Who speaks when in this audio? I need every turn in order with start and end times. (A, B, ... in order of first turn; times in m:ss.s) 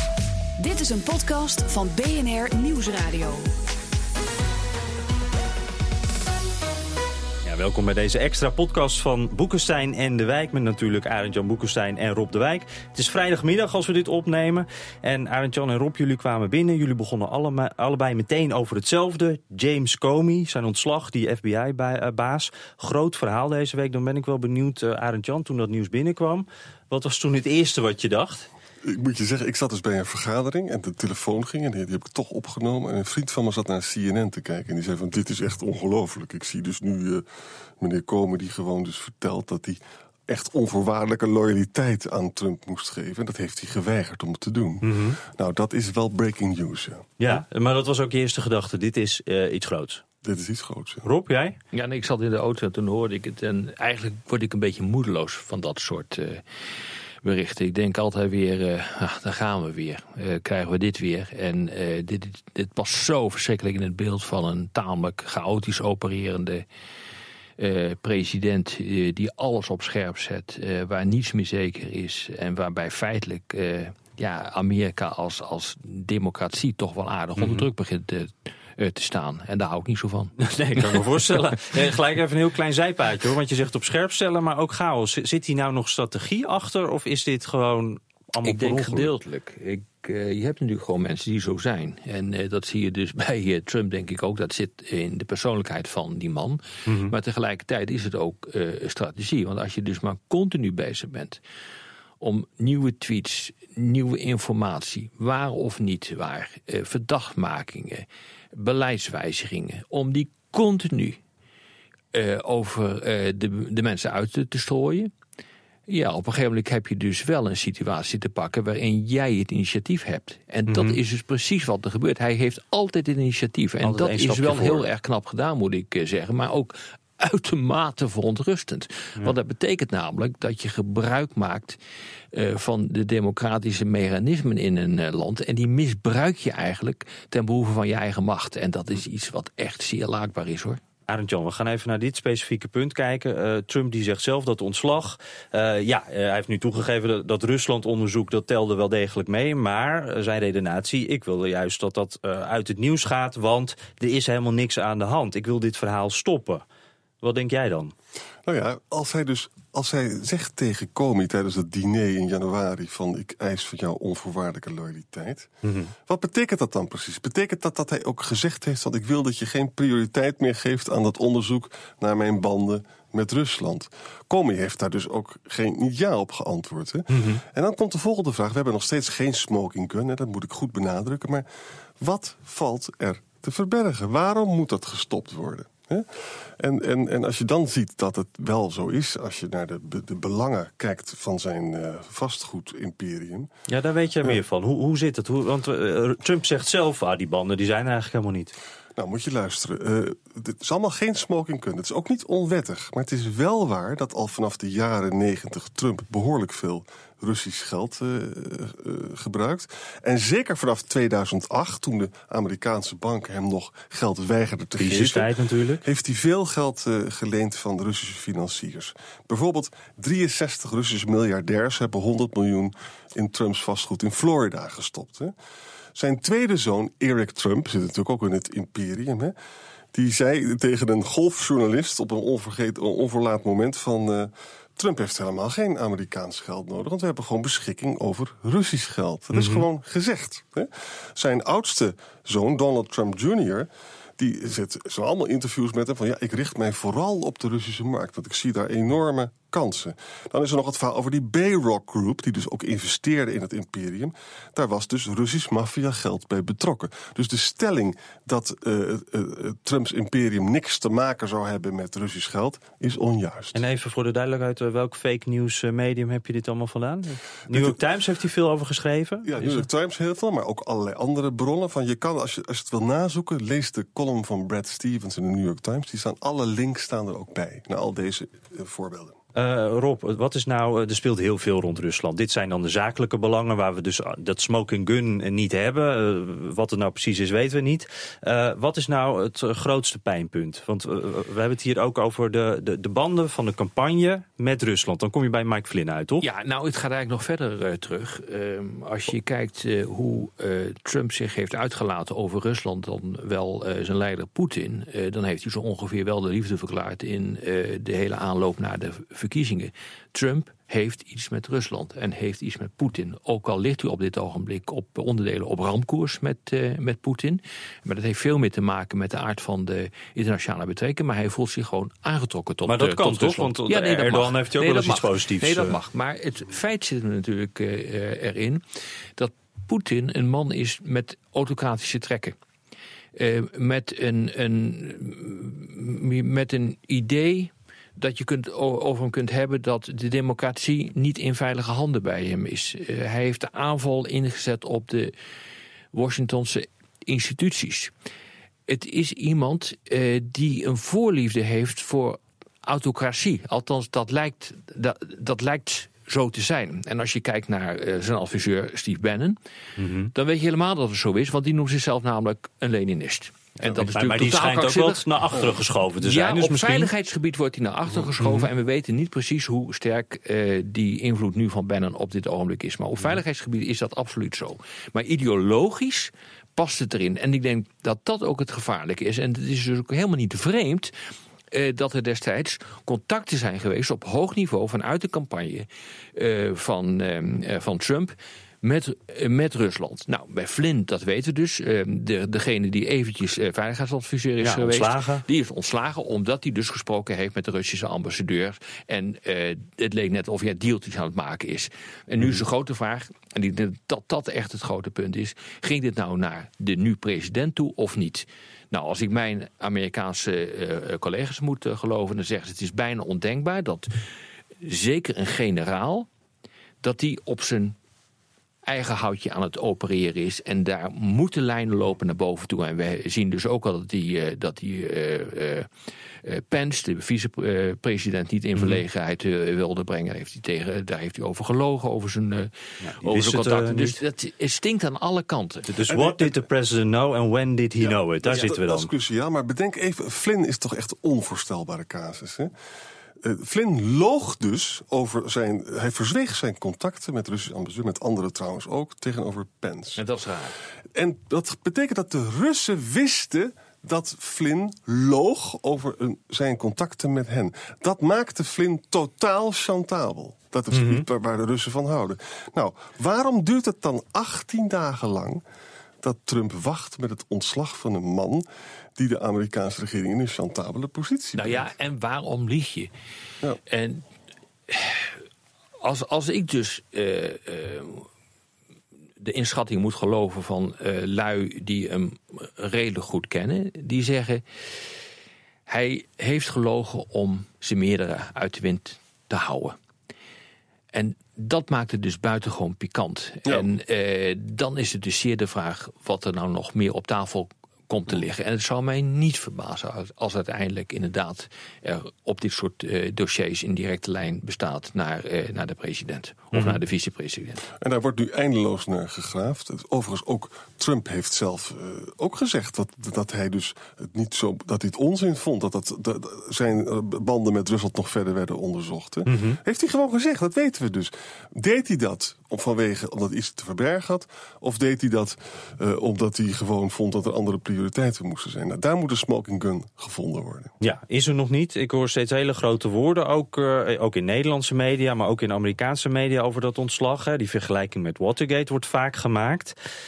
0:00.6-0:03.5 A
0:07.4-0:28.5 B
0:28.8-0:37.2 C
0:37.8-0:47.1 C
0:44.8-0:45.2 B
0:47.2-0:50.0 B
0:50.2-0:51.0 C
0:51.0-0:51.6 B
0:51.7-0:56.4 D
0:57.2-1:06.7 D
1:07.6-1:20.3 D
1:17.4-1:17.7 B
1:20.4-1:29.1 B
1:20.9-1:21.3 D
1:28.4-1:41.4 D
1:36.9-1:37.1 B
1:42.2-1:51.2 D
1:52.1-1:55.1 D
1:55.9-2:11.8 D
2:00.7-2:01.0 B
2:03.8-2:04.9 B
2:12.3-2:20.8 D
2:21.1-2:36.6 B
2:37.2-2:37.9 B
2:38.4-2:45.5 C
2:45.6-2:45.9 B
2:46.1-3:01.5 C
2:57.1-2:57.4 B
3:02.0-3:06.1 C
3:06.6-3:13.5 C
3:13.7-3:18.5 B
3:19.0-3:35.3 C
3:34.8-3:35.8 B
3:35.8-3:45.3 C
3:46.0-3:49.3 C
3:49.9-4:23.6 C
3:59.3-3:59.6 B
4:23.5-4:29.6 B
4:27.5-4:27.8 C
4:29.2-4:39.2 C
4:39.4-4:56.2 B
4:56.2-5:28.6 D
5:22.7-5:25.8 B
5:29.2-5:32.4 D
5:33.2-5:45.2 D
5:45.9-5:47.9 D
5:48.7-5:59.4 D
5:59.8-6:00.1 B
6:00.1-6:05.1 D
6:03.6-6:06.9 B
6:06.0-6:20.9 D
6:08.2-6:08.5 B
6:21.5-6:53.9 D
6:34.4-6:35.2 B
6:54.6-6:56.1 D
6:56.8-6:57.8 D
6:58.6-7:05.7 D
7:06.2-7:15.8 D
7:08.6-7:08.8 B
7:12.8-7:14.0 B
7:15.6-7:18.9 B
7:15.9-7:16.4 C
7:17.8-7:22.5 C
7:23.2-7:30.0 C
7:30.0-7:30.6 D
7:31.0-7:45.4 C
7:40.7-7:41.0 B
7:46.0-7:48.4 C
7:49.0-7:51.7 C
7:51.3-7:52.9 D
7:53.7-7:54.1 D
7:54.7-7:55.2 D
7:55.8-7:58.1 D
7:59.2-8:04.4 D
8:05.7-8:09.8 D
8:10.9-8:27.6 D
8:27.8-8:50.8 C
8:39.3-8:39.6 B
8:50.8-8:59.8 B